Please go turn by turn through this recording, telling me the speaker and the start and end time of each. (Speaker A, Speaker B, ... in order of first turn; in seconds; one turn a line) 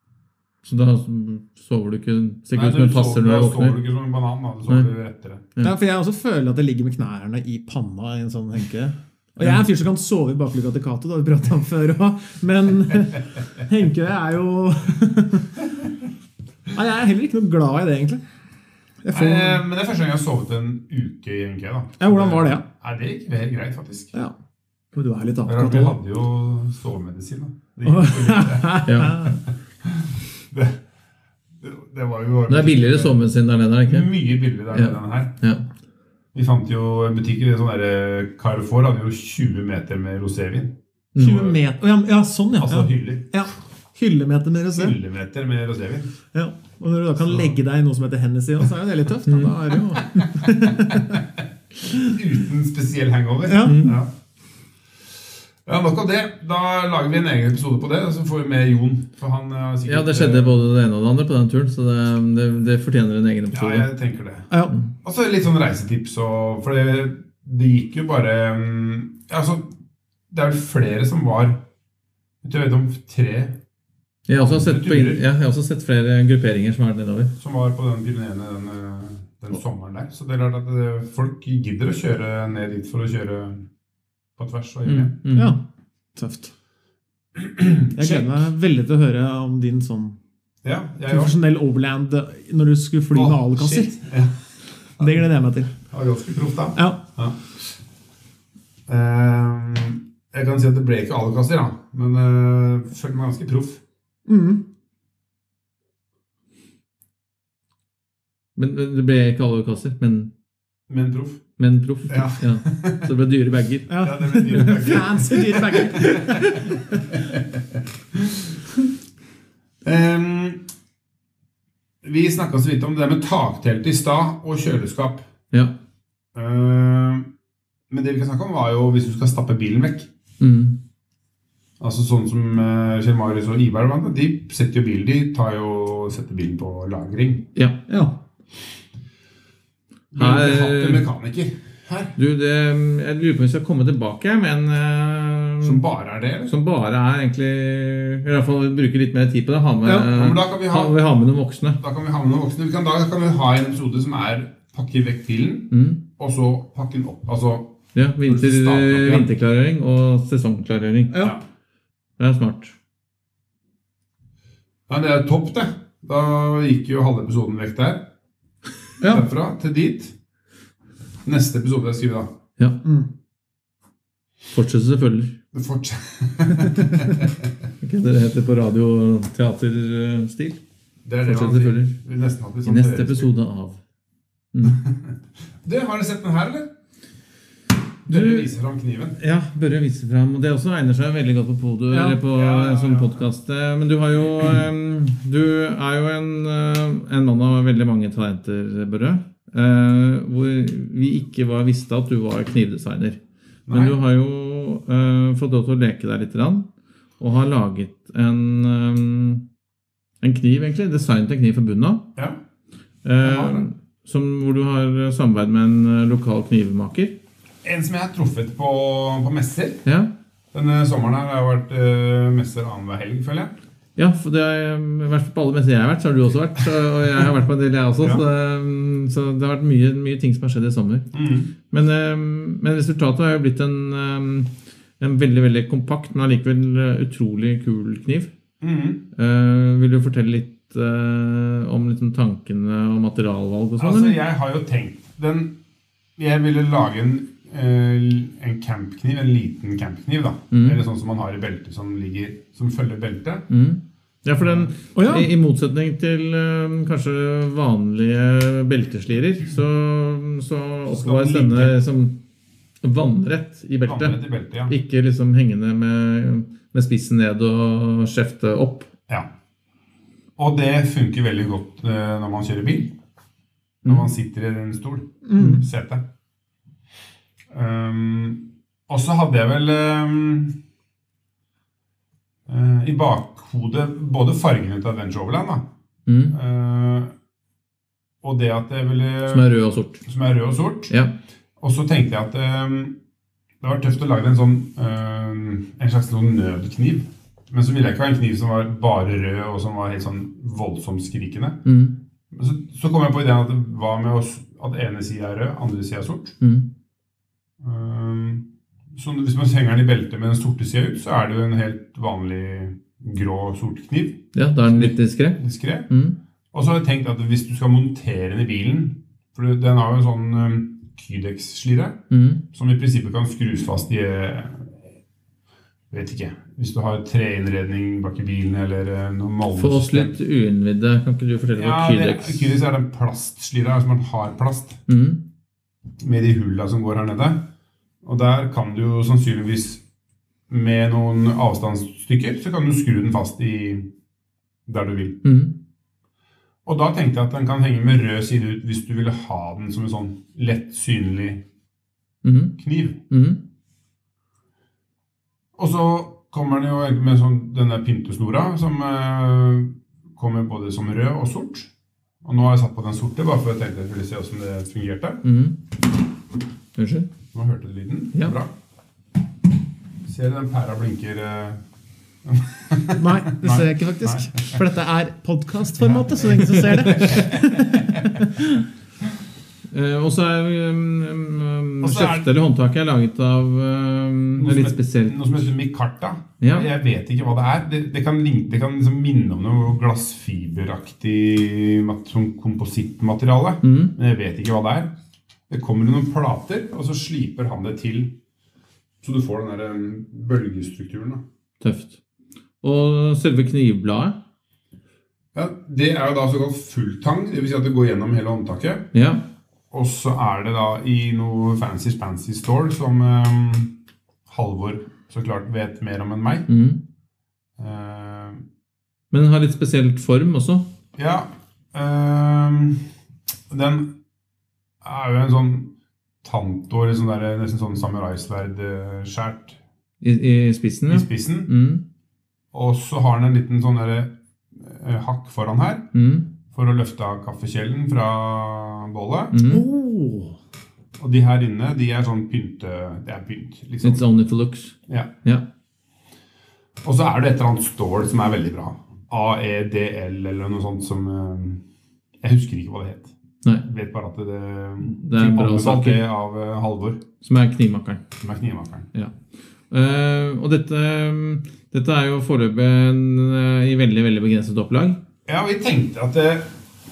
Speaker A: 0.6-3.8
Speaker B: 2.5-5.5
Speaker C: 5.6-15.6
Speaker C: 16.7-18.2
Speaker C: 19.0-19.6
Speaker B: 19.1-24.1
Speaker C: 22.0-22.6
Speaker C: 24.9-26.0
Speaker B: 25.4-30.8
Speaker C: 27.9-29.4
Speaker A: 28.8-29.4
Speaker B: 31.6-33.2
Speaker A: 32.5-34.1
Speaker B: 33.9-35.4
Speaker A: 34.7-35.7
Speaker B: 36.3-41.6
Speaker A: 41.1-41.4
Speaker C: 41.2-45.0
Speaker B: 42.6-43.3
Speaker B: 44.7-46.1
Speaker C: 46.3-51.2
Speaker A: 49.3-49.5
Speaker C: 51.8-52.2
Speaker B: 52.0-54.1
Speaker C: 53.5-53.9
Speaker A: 53.6-54.0
Speaker B: 55.7-60.6
Speaker A: 59.9-63.9
Speaker B: 63.5-64.5
Speaker B: 65.0-69.7
Speaker B: 70.3-71.6
Speaker B: 72.4-73.6
Speaker A: 74.3-77.3
Speaker B: 74.4-75.2
Speaker B: 77.4-83.7
Speaker B: 84.4-85.2
Speaker A: 84.8-85.6
Speaker C: 85.3-85.6
Speaker C: 86.2-86.5
Speaker B: 87.3-88.5
Speaker C: 87.9-90.2
Speaker B: 90.6-91.4
Speaker C: 91.1-94.0
Speaker B: 93.1-94.3
Speaker C: 95.0-95.8
Speaker B: 95.9-97.4
Speaker C: 96.8-97.0
Speaker B: 98.9-103.8
Speaker C: 104.3-104.6
Speaker A: 108.6-110.3
Speaker B: 110.9-111.4
Speaker A: 111.6-114.0
Speaker B: 112.1-113.1
Speaker C: 113.9-117.1
Speaker B: 114.0-118.6
Speaker A: 114.5-114.8
Speaker B: 119.8-120.7
Speaker B: 122.0-125.3
Speaker B: 126.3-127.3
Speaker B: 127.9-130.1
Speaker A: 130.4-130.8
Speaker B: 131.8-137.5
Speaker A: 137.6-137.8
Speaker C: 137.9-138.2
Speaker B: 140.1-142.2
Speaker A: 140.2-141.1
Speaker A: 142.2-145.8
Speaker B: 145.6-146.5
Speaker A: 146.5-151.8
Speaker B: 150.0-151.0
Speaker B: 151.8-159.3
Speaker A: 155.7-156.0
Speaker A: 157.9-161.2
Speaker A: 162.2-162.7
Speaker B: 164.9-168.1
Speaker B: 169.0-170.2
Speaker B: 171.2-172.3
Speaker C: 172.8-173.1
Speaker A: 174.5-175.4
Speaker B: 175.5-177.5
Speaker A: 177.8-180.6
Speaker B: 181.1-183.3
Speaker A: 181.2-181.9
Speaker A: 182.7-183.8
Speaker A: 184.5-184.8
Speaker B: 184.7-186.7
Speaker B: 188.1-189.2
Speaker A: 188.1-188.5
Speaker A: 189.2-206.7
Speaker C: 191.9-192.2
Speaker B: 192.2-193.3
Speaker B: 203.7-204.0
Speaker A: 207.2-209.4
Speaker A: 210.2-212.1
Speaker A: 213.0-217.2
Speaker B: 213.2-213.7
Speaker B: 217.6-219.8
Speaker A: 219.8-220.1
Speaker B: 220.5-223.5
Speaker A: 224.0-231.1
Speaker B: 231.1-231.5
Speaker A: 231.7-238.3
Speaker B: 238.6-239.1
Speaker A: 239.1-244.2
Speaker B: 243.8-245.6
Speaker B: 246.2-253.5
Speaker A: 250.5-250.8
Speaker A: 253.5-262.2
Speaker B: 254.4-254.7
Speaker C: 254.9-255.3
Speaker B: 260.9-261.8
Speaker A: 262.8-268.9
Speaker B: 263.9-264.7
Speaker B: 270.4-272.9
Speaker B: 273.8-276.0
Speaker C: 275.2-275.6
Speaker B: 277.5-280.6
Speaker B: 282.5-285.7
Speaker A: 286.1-286.4
Speaker B: 286.3-287.1
Speaker B: 288.2-289.5
Speaker A: 289.3-290.0
Speaker B: 290.0-290.9
Speaker A: 290.9-291.1
Speaker B: 291.6-293.0
Speaker B: 293.6-301.6
Speaker A: 301.6-302.0
Speaker B: 302.3-306.4
Speaker A: 306.4-306.7
Speaker B: 307.6-315.9
Speaker A: 314.3-316.2
Speaker B: 316.5-324.8
Speaker A: 322.1-322.4
Speaker B: 325.9-330.2
Speaker A: 329.6-332.6
Speaker B: 331.6-334.8
Speaker A: 334.9-335.2
Speaker B: 336.0-337.4
Speaker B: 338.0-339.8
Speaker B: 340.5-343.9
Speaker B: 344.7-345.2
Speaker A: 345.2-345.6
Speaker B: 346.6-351.4
Speaker A: 352.2-352.6
Speaker B: 352.6-353.0
Speaker A: 353.1-353.4
Speaker B: 355.6-361.7
Speaker B: 362.2-365.2
Speaker A: 365.2-365.6
Speaker A: 366.8-367.1
Speaker B: 367.3-368.5
Speaker B: 370.1-371.6
Speaker B: 372.2-374.6
Speaker C: 373.0-378.6
Speaker B: 375.8-378.2
Speaker A: 376.5-377.2
Speaker A: 379.7-385.5
Speaker B: 381.8-382.3
Speaker B: 384.4-394.9
Speaker A: 386.4-386.7
Speaker A: 393.6-393.9
Speaker B: 395.5-398.1
Speaker B: 399.0-401.2
Speaker A: 401.6-402.0
Speaker A: 402.6-404.2
Speaker B: 405.3-408.9
Speaker A: 408.9-409.2
Speaker B: 409.7-413.8
Speaker B: 414.3-416.5
Speaker A: 416.5-416.8
Speaker B: 417.6-418.4
Speaker A: 419.1-420.7
Speaker B: 421.0-422.8
Speaker B: 423.5-424.0
Speaker B: 424.8-425.7
Speaker B: 426.2-429.6
Speaker A: 430.0-431.8
Speaker B: 430.9-431.5
Speaker B: 432.5-435.9
Speaker A: 435.9-436.3
Speaker B: 436.5-439.4
Speaker A: 439.3-439.6
Speaker C: 439.5-440.4
Speaker B: 441.0-444.1
Speaker A: 443.8-445.5
Speaker B: 446.8-451.6
Speaker B: 452.2-453.1
Speaker B: 453.6-457.0
Speaker A: 454.8-456.1
Speaker A: 457.2-458.1
Speaker B: 458.2-458.9
Speaker A: 459.7-465.0
Speaker B: 465.3-466.5